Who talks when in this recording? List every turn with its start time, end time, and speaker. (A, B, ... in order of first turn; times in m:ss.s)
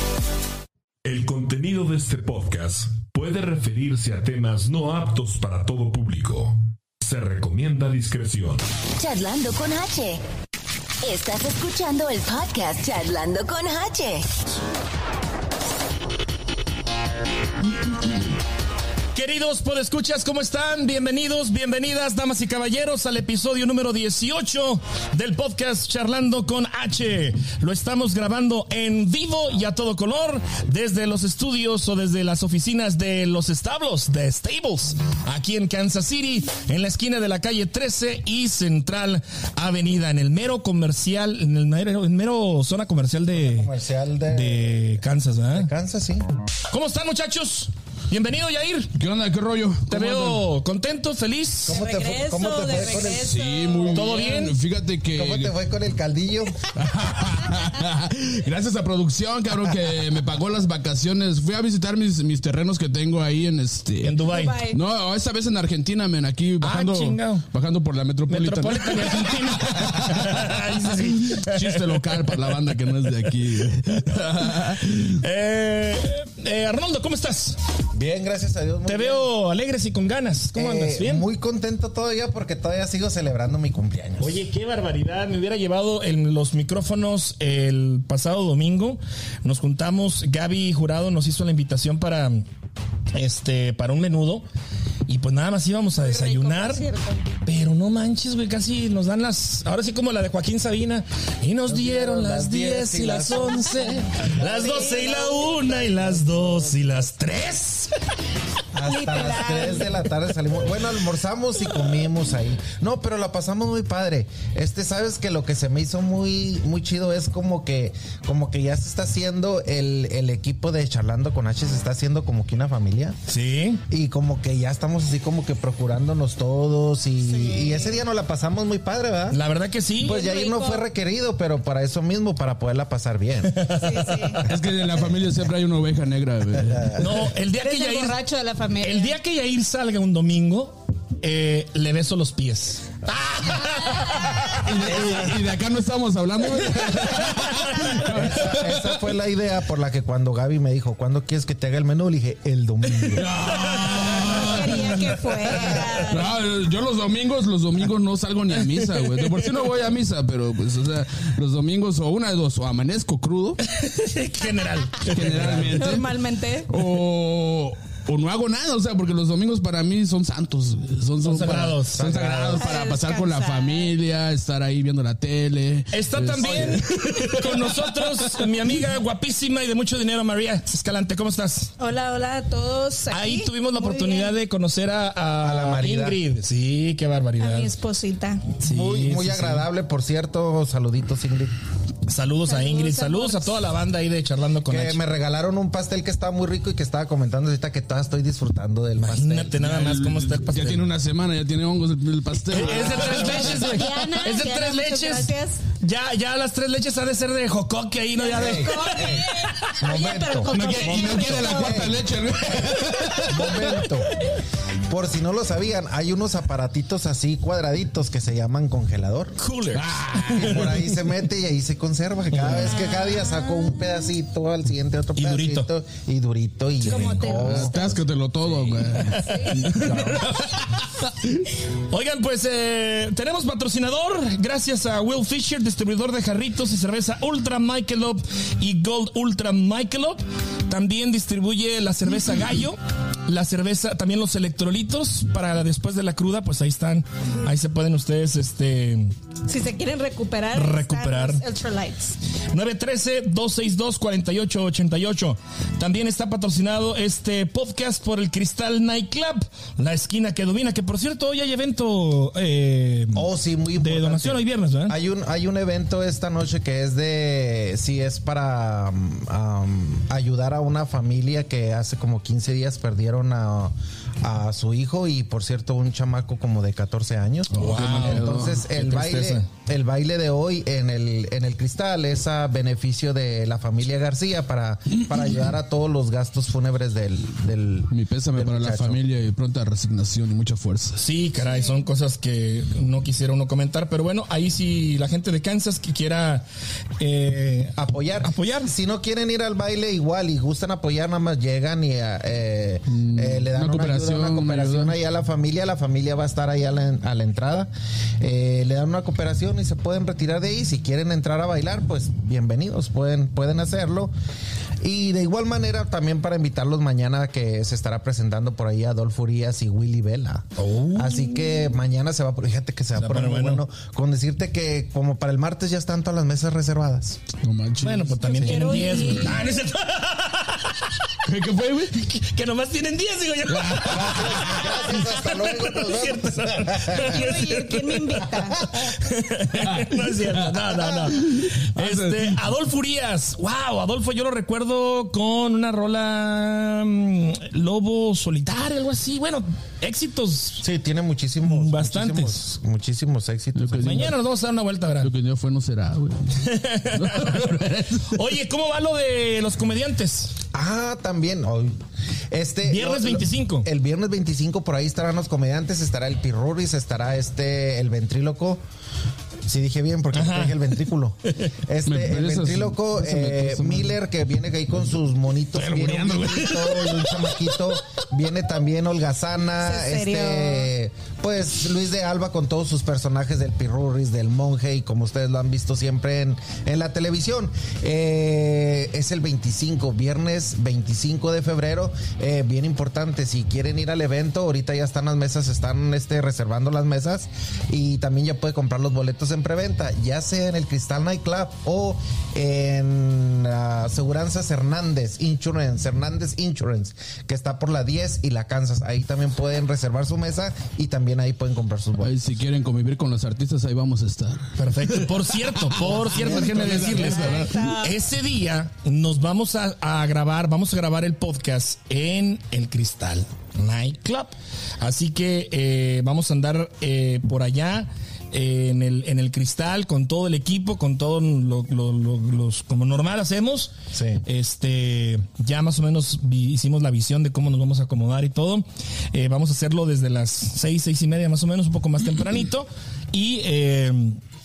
0:01.0-0:08.6 A
0:09.0-0:10.2 B
0:11.0-0:14.3 B
0:19.1-0:43.7 C
0:43.3-0:44.9 D
0:44.3-0:45.7 C
0:45.5-0:46.2 D
0:46.7-0:48.9 C
0:49.0-0:50.4 E
0:49.9-0:51.8 C
0:51.7-0:53.4 D
0:51.7-0:54.2 F
0:53.0-0:55.5 E
0:53.9-0:54.6 C
0:55.1-0:56.7 D
0:56.7-1:04.2 E
1:04.0-1:04.6 C
1:04.3-1:04.8 F
1:04.7-1:15.2 E
1:06.6-1:07.4 C
1:08.3-1:12.7 C
1:14.1-1:17.6 C
1:17.9-1:19.3 D
1:18.9-1:21.2 C
1:20.5-1:24.4 D
1:24.2-1:32.4 C
1:33.1-1:34.4 C
1:35.1-1:36.9 C
1:36.0-1:37.3 F
1:37.4-1:47.9 C
1:41.7-1:47.0 D
1:44.4-1:45.8 F
1:48.7-2:03.2 D
1:48.8-1:50.0 F
2:03.3-2:03.8 C
2:03.9-2:09.4 D
2:07.2-2:08.0 F
2:09.3-2:10.2 C
2:10.0-2:13.6 D
2:10.0-2:10.8 F
2:13.5-2:14.5 C
2:13.8-2:14.4 F
2:14.5-2:17.0 E
2:16.6-2:16.9 D
2:16.9-2:18.2 C
2:17.6-2:19.2 F
2:18.8-2:24.6 C
2:24.6-2:29.0 E
2:24.7-2:25.6 D
2:27.3-2:28.0 C
2:28.1-2:33.4 D
2:33.1-2:35.2 E
2:33.5-2:34.5 C
2:34.2-2:36.2 F
2:35.5-2:36.0 C
2:36.1-2:43.6 E
2:38.7-2:39.4 C
2:43.6-2:45.9 C
2:45.0-2:46.1 E
2:45.7-2:46.7 F
2:46.7-2:58.3 E
2:51.2-2:52.0 C
2:51.9-2:52.7 D
2:52.6-2:53.9 F
2:55.9-3:01.7 C
2:56.4-2:56.8 D
3:01.8-3:04.3 F
3:03.1-3:07.8 C
3:05.4-3:06.2 D
3:07.4-3:08.5 F
3:08.6-3:09.7 C
3:08.6-3:11.5 D
3:12.1-3:15.0 C
3:12.5-3:13.5 F
3:14.7-3:19.6 D
3:19.0-3:20.8 C
3:19.6-3:23.9 E
3:22.5-3:29.7 C
3:22.5-3:23.5 D
3:22.8-3:25.6 F
3:28.2-3:31.9 F
3:28.3-3:29.3 D
3:29.8-3:32.0 D
3:30.5-3:31.4 C
3:30.5-3:33.7 E
3:33.2-3:34.1 D
3:34.9-3:39.4 D
3:39.4-3:40.7 C
3:39.7-3:40.8 E
3:40.3-3:48.0 D
3:42.3-3:42.7 C
3:42.7-3:43.3 F
3:45.2-3:45.7 C
3:46.8-3:47.5 C
3:46.9-3:47.9 F
3:47.3-3:50.5 E
3:48.4-3:50.5 C
3:49.2-3:49.6 F
3:49.8-3:50.2 D
3:51.0-3:51.4 E
3:51.9-4:09.1 C
4:09.5-4:12.2 F
4:10.5-4:11.4 C
4:12.5-4:23.3 C
4:23.1-4:49.0 D
4:23.8-4:25.0 C
4:37.5-4:38.6 E
4:37.5-4:39.5 C
4:47.9-4:51.0 E
4:51.0-4:56.4 C
4:57.0-4:58.7 C
4:57.8-5:14.1 D
5:02.9-5:05.0 E
5:14.8-5:27.2 D
5:20.6-5:21.6 C
5:23.0-5:23.6 C
5:27.4-5:29.2 E
5:27.8-5:30.8 C
5:28.2-5:29.6 F
5:31.2-5:32.0 E
5:32.0-5:50.6 C
5:33.5-5:34.4 E
5:33.8-5:37.4 D
5:37.0-5:38.6 F
5:39.6-5:40.0 E
5:40.6-5:41.1 D
5:41.2-5:42.4 E
5:50.6-5:54.1 D
5:51.4-5:52.4 C
5:53.5-5:54.1 E
5:53.8-5:55.1 C
5:55.0-5:58.1 E
5:56.4-6:00.3 C
6:00.5-6:01.8 D
6:02.3-6:08.6 D
6:02.6-6:03.7 C
6:09.5-6:52.1 D
6:10.1-6:10.6 C
6:11.3-6:11.5 C
6:11.9-6:14.0 E
6:15.5-6:17.6 E
6:19.6-6:20.7 F
6:52.0-6:57.6 E
6:54.6-7:13.7 C
6:55.8-6:57.1 D
6:56.7-6:58.0 F
7:13.9-7:14.2 D
7:14.2-7:24.2 C